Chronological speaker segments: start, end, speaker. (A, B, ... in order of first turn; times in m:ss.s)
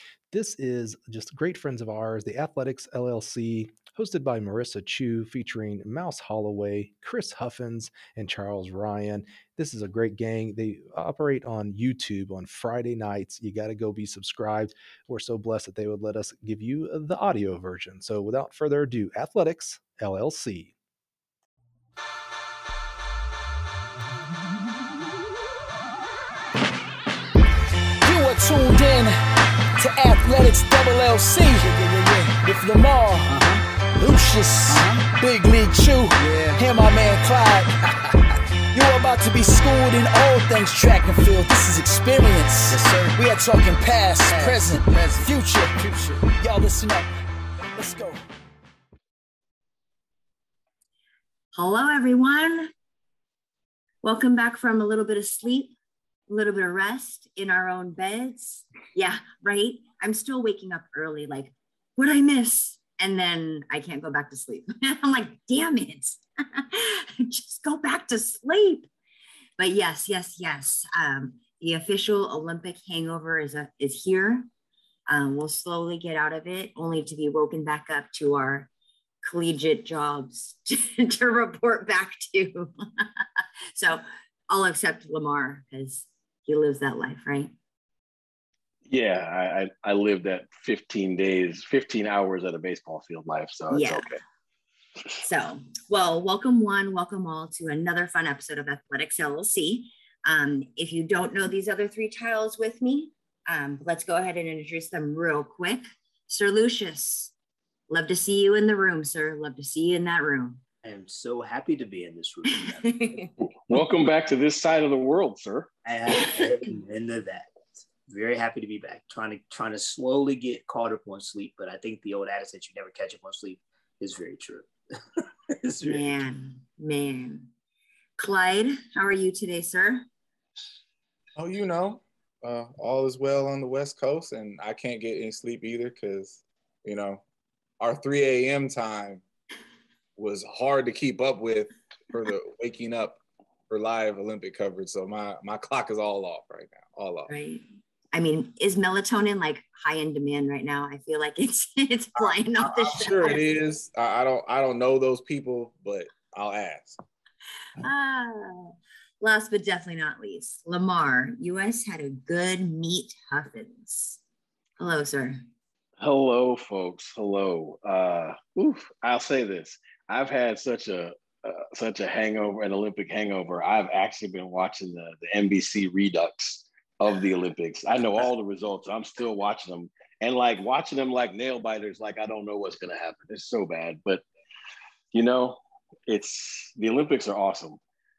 0:00.3-0:20.7 A
0:28.0-0:29.2 B
0:29.8-0:38.2 B
0:38.7-0:47.1 B
0:47.6-0:48.2 B
0:51.5-0:52.7 C
0:54.0-0:55.8 C
0:56.3-1:08.9 C
1:09.6-1:14.5 C
1:15.1-1:18.7 C
1:19.2-1:23.1 C
1:23.7-1:27.5 C
1:28.9-1:34.2 D
1:33.7-1:34.0 C
1:35.2-1:47.3 C
1:47.9-1:50.6 C
1:50.8-1:53.2 E
1:52.9-1:53.3 C
1:53.7-1:55.7 D
1:55.8-2:06.2 E
2:05.8-2:07.5 C
2:08.2-2:10.0 C
2:11.4-2:17.2 F
2:17.8-2:19.2 F
2:20.2-2:23.2 F
2:23.7-2:27.3 F
2:27.3-2:33.5 C
2:32.2-2:37.0 F
2:37.8-2:44.2 C
2:44.8-2:45.4 C
2:46.0-3:04.2 D
3:05.1-3:07.8 D